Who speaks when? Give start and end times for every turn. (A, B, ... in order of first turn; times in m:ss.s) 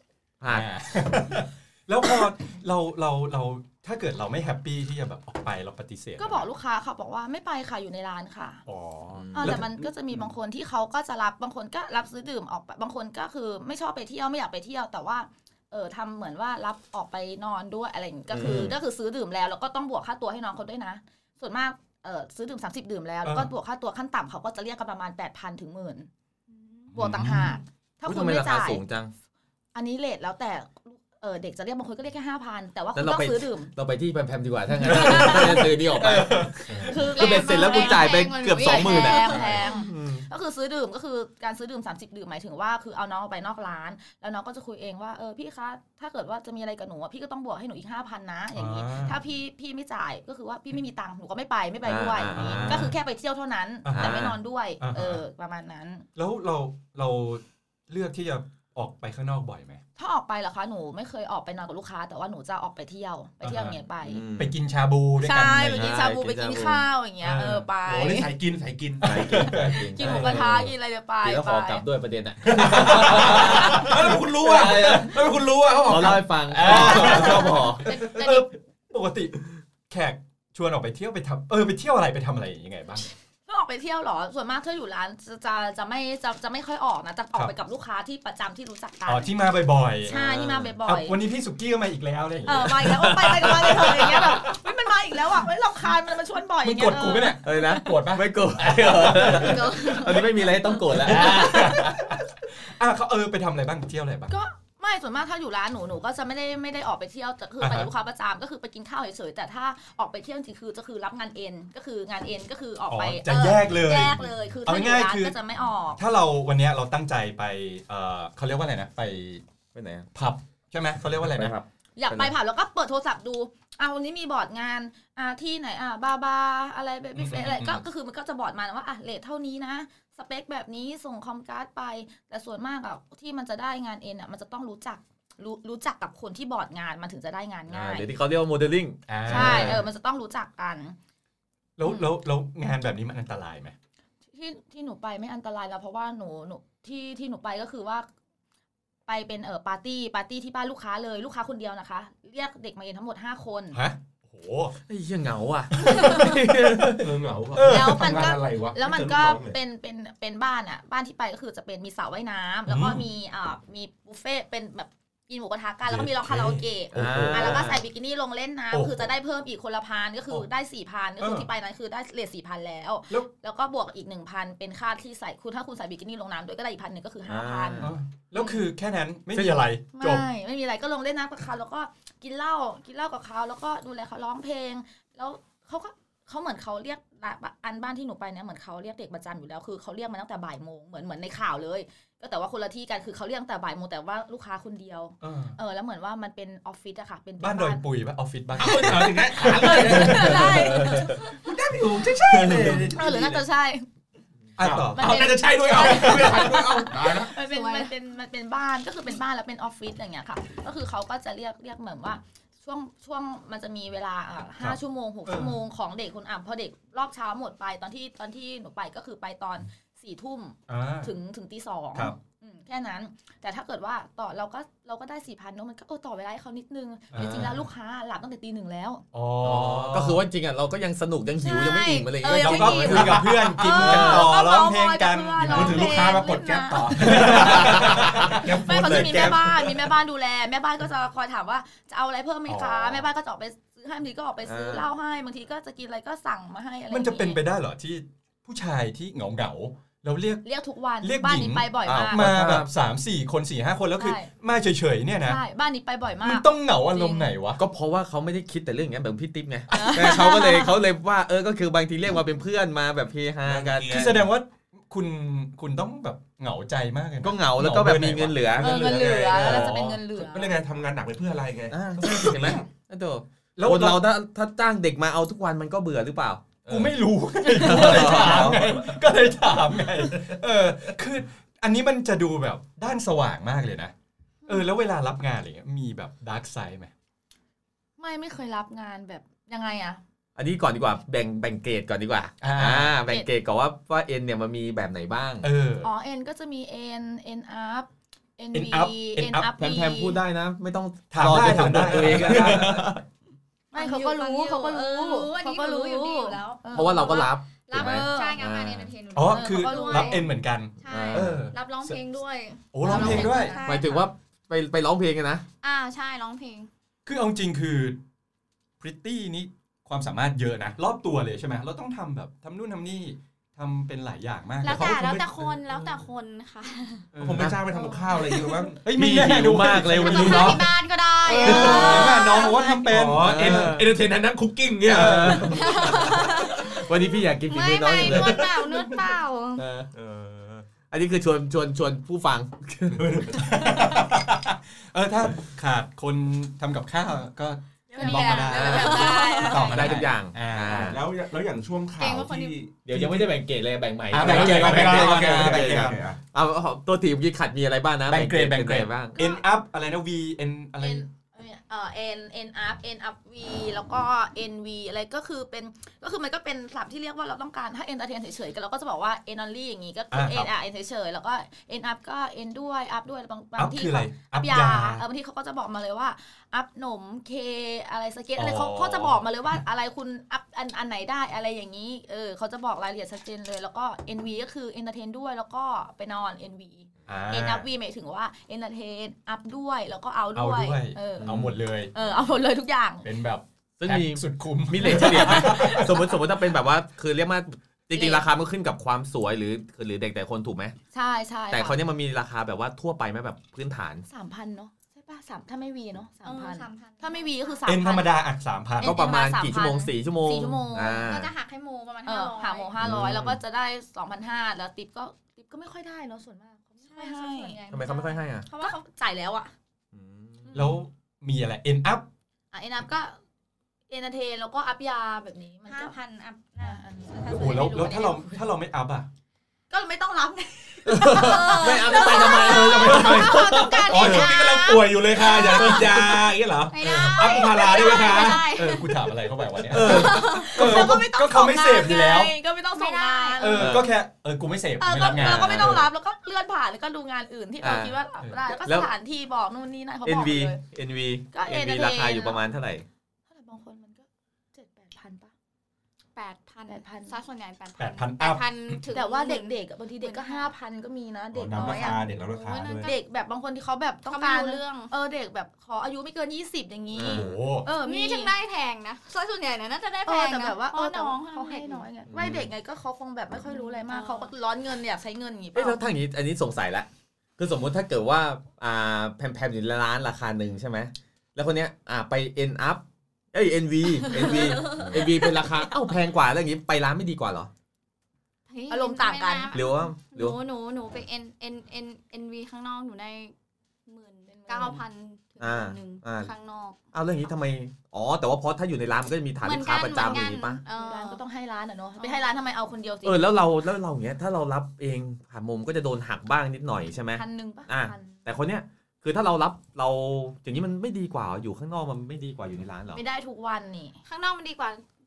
0:00.4-0:00.7 A
0:00.5-0:06.4 B
0:06.2-0:08.6 C
0:08.6-0:09.7 B
0:09.1-0:09.6 A
0:09.3-0:26.1 C
0:18.3-0:18.8 A
0:23.2-0:23.5 B
0:26.5-0:27.6 D
0:26.9-0:27.5 B
0:27.0-0:28.8 C
0:28.0-0:29.1 A
0:29.7-0:33.7 C
0:32.9-0:40.2 A
0:34.7-0:35.7 C
0:34.8-0:37.0 B
0:36.8-0:56.0 C
0:37.0-0:39.9 D
0:48.5-0:49.2 B
0:51.8-0:52.9 A
0:52.3-0:52.9 B
0:53.8-0:55.2 B
0:53.9-0:54.4 A
0:56.2-0:59.8 B
1:00.0-1:04.2 C
1:03.4-1:03.8 B
1:04.0-1:04.6 A
1:04.4-1:06.0 B
1:05.2-1:08.3 C
1:05.8-1:06.9 A
1:07.2-1:07.6 B
1:07.8-1:09.5 E
1:09.0-1:10.5 B
1:09.0-1:10.7 A
1:09.7-1:11.8 C
1:11.2-1:15.2 A
1:12.4-1:16.3 E
1:13.0-1:14.8 B
1:15.8-1:17.9 A
1:16.5-1:23.0 B
1:16.6-1:18.5 C
1:23.5-1:29.3 C
1:29.0-1:30.2 B
1:30.0-1:31.2 C
1:30.1-1:30.7 A
1:30.8-1:34.5 B
1:32.4-1:38.0 C
1:36.6-1:40.1 B
1:37.4-1:41.9 A
1:39.4-1:40.7 D
1:39.6-1:42.0 C
1:40.9-1:44.4 B
1:44.3-1:56.0 C
1:47.6-1:47.9 B
1:52.9-1:55.4 B
1:56.0-1:59.4 B
1:59.7-2:00.1 A
2:00.1-2:01.5 B
2:01.2-2:02.3 A
2:02.0-2:18.1 C
2:07.2-2:07.8 B
2:17.7-2:19.8 A
2:19.1-2:19.8 B
2:19.2-2:21.0 C
2:21.8-2:23.7 B
2:24.3-2:28.1 C
2:29.1-2:33.8 C
2:33.7-2:34.7 B
2:34.9-2:37.1 A
2:35.8-2:37.0 B
2:36.8-2:39.6 E
2:37.5-2:38.3 B
2:37.6-2:58.6 C
2:42.7-2:43.0 B
2:45.9-2:47.8 B
2:46.9-2:47.8 A
2:48.7-2:49.1 B
2:51.2-2:51.5 B
2:57.2-2:57.9 A
2:57.8-3:00.2 B
2:59.3-3:17.8 C
3:15.2-3:15.6 B
3:17.4-3:20.7 B
3:18.6-3:23.4 E
3:18.6-3:21.3 C
3:20.6-3:21.2 A
3:22.3-3:22.9 A
3:22.9-3:23.9 C
3:24.6-3:26.6 B
3:24.6-3:27.3 E
3:24.9-3:49.0 C
3:27.4-3:27.9 D
3:34.6-3:35.5 B
3:40.7-3:41.1 B
3:47.1-3:47.6 B
3:49.1-3:50.3 B
3:49.4-3:54.3 A
3:51.4-3:57.7 C
3:52.2-3:56.1 B
3:55.4-3:59.3 E
3:56.9-3:59.3 B
3:57.0-3:59.7 A
3:58.3-4:07.4 C
4:02.5-4:03.1 B
4:04.4-4:04.9 A
4:06.9-4:10.4 B
4:10.4-4:12.3 C
4:11.0-4:15.4 B
4:11.8-4:12.7 A
4:14.0-4:14.3 C
4:15.2-4:17.3 C
4:16.2-4:17.6 B
4:17.6-4:24.2 A
4:19.7-4:20.8 C
4:23.4-4:24.2 E
4:23.9-4:30.0 B
4:27.2-4:29.6 A
4:28.6-4:30.5 C
4:28.6-4:31.8 E
4:31.7-4:36.6 A
4:32.0-4:32.6 B
4:33.6-4:34.1 B
4:36.6-4:36.9 E
4:36.7-4:43.9 B
4:37.5-4:38.8 A
4:38.2-4:38.7 E
4:40.0-4:40.4 E
4:44.5-4:46.9 B
4:48.0-4:50.0 C
4:50.4-4:55.5 A
4:52.4-4:53.0 B
4:53.0-4:53.3 C
4:55.4-4:55.9 B
4:55.8-5:00.2 C
4:58.5-4:59.5 B
4:59.5-5:03.0 A
5:01.1-5:03.0 B
5:01.9-5:02.7 E
5:03.7-5:08.4 C
5:03.7-5:10.2 D
5:06.7-5:08.9 A
5:09.1-5:12.0 B
5:09.3-5:10.3 C
5:10.8-5:14.1 D
5:10.8-5:11.5 A
5:12.7-5:13.6 B
5:12.8-5:13.7 C
5:13.6-5:15.4 A
5:15.6-5:16.7 D
5:17.0-5:18.0 B
5:18.8-5:25.2 B
5:24.6-5:27.1 D
5:24.6-5:25.6 E
5:25.7-5:25.9 B
5:27.1-5:27.6 B
5:27.2-5:29.8 E
5:27.4-5:27.6 A
5:27.7-5:28.7 D
5:28.8-5:30.7 B
5:28.9-5:30.6 A
5:30.0-5:32.9 D
5:31.3-5:33.8 B
5:31.3-5:35.6 E
5:31.4-5:32.2 A
5:33.2-5:33.9 A
5:34.9-5:36.0 B
5:34.9-5:38.5 A
5:35.5-5:36.9 D
5:37.4-5:39.6 D
5:38.0-5:38.3 E
5:39.6-5:39.9 A
5:39.9-5:40.7 E
5:40.9-5:43.2 A
5:42.9-5:44.0 E
5:43.3-5:51.0 B
5:47.9-5:49.8 C
5:47.9-5:49.8 D
5:48.5-5:51.0 A
5:50.7-5:53.1 E
5:52.0-5:52.6 D
5:52.8-5:59.2 A
5:54.1-5:56.0 B
5:54.1-5:56.2 E
5:58.1-6:01.0 B
5:59.2-5:59.4 C
6:00.8-6:33.0 C
6:10.1-6:10.5 B
6:13.6-6:15.0 B
6:18.4-6:19.6 B
6:27.1-6:27.7 B
6:30.3-6:31.9 B
6:31.2-6:31.6 A
6:33.0-6:36.0 B
6:33.8-6:40.8 A
6:34.8-6:36.2 C
6:37.9-6:38.2 C
6:40.9-6:41.8 C
6:41.5-6:44.0 A
6:44.1-6:48.2 C
6:46.2-6:47.6 D
6:47.6-6:49.0 B
6:48.8-6:51.2 C
6:48.8-6:51.3 A
6:51.0-6:52.7 D
6:52.0-6:57.6 C
6:52.8-6:53.4 A
6:56.8-6:58.8 D
6:57.7-6:58.5 A
6:58.5-6:59.5 C
6:59.9-7:00.6 A
7:00.4-7:00.8 C
7:00.5-7:02.1 B
7:02.5-7:03.2 C
7:03.9-7:05.9 C
7:05.7-7:08.0 D
7:06.6-7:08.5 C
7:07.3-7:09.1 B
7:09.7-7:14.4 C
7:10.8-7:14.0 A
7:11.1-7:16.2 D
7:12.3-7:18.5 E
7:15.1-7:16.0 C
7:16.7-7:19.3 D
7:16.8-7:17.4 B
7:17.9-7:18.2 C
7:18.4-7:22.3 B
7:19.7-7:20.8 A
7:19.7-7:23.8 C
7:19.8-7:20.6 D
7:22.7-7:23.6 D
7:23.4-7:25.9 B
7:23.6-7:24.0 A
7:24.8-7:30.6 C
7:27.6-7:28.0 A
7:28.2-7:28.5 B
7:28.6-7:28.9 A
7:30.0-7:32.8 A
7:31.3-7:32.4 C
7:33.3-7:35.3 C
7:36.1-7:40.5 D
7:36.7-7:37.2 C
7:37.8-7:38.8 B
7:38.9-7:48.3 C
7:41.3-7:42.9 E
7:41.6-7:43.0 D
7:44.1-7:44.9 D
7:46.9-7:47.4 A
7:47.0-7:47.7 B
7:47.6-7:51.9 D
7:50.0-7:55.8 C
7:52.1-7:52.5 A
7:53.4-7:54.3 D
7:55.5-8:07.5 A
8:04.1-8:05.1 D
8:04.1-8:05.4 C
8:08.5-8:13.3 D
8:08.7-8:09.7 C
8:09.5-8:10.4 A
8:13.8-8:16.8 D
8:14.3-8:14.8 C
8:15.4-8:16.3 A
8:16.9-8:20.6 A
8:19.4-8:21.2 D
8:20.0-8:23.3 C
8:22.0-8:22.3 D
8:23.0-8:33.0 A
8:27.1-8:28.2 C
8:32.9-8:34.0 C
8:34.0-8:34.8 D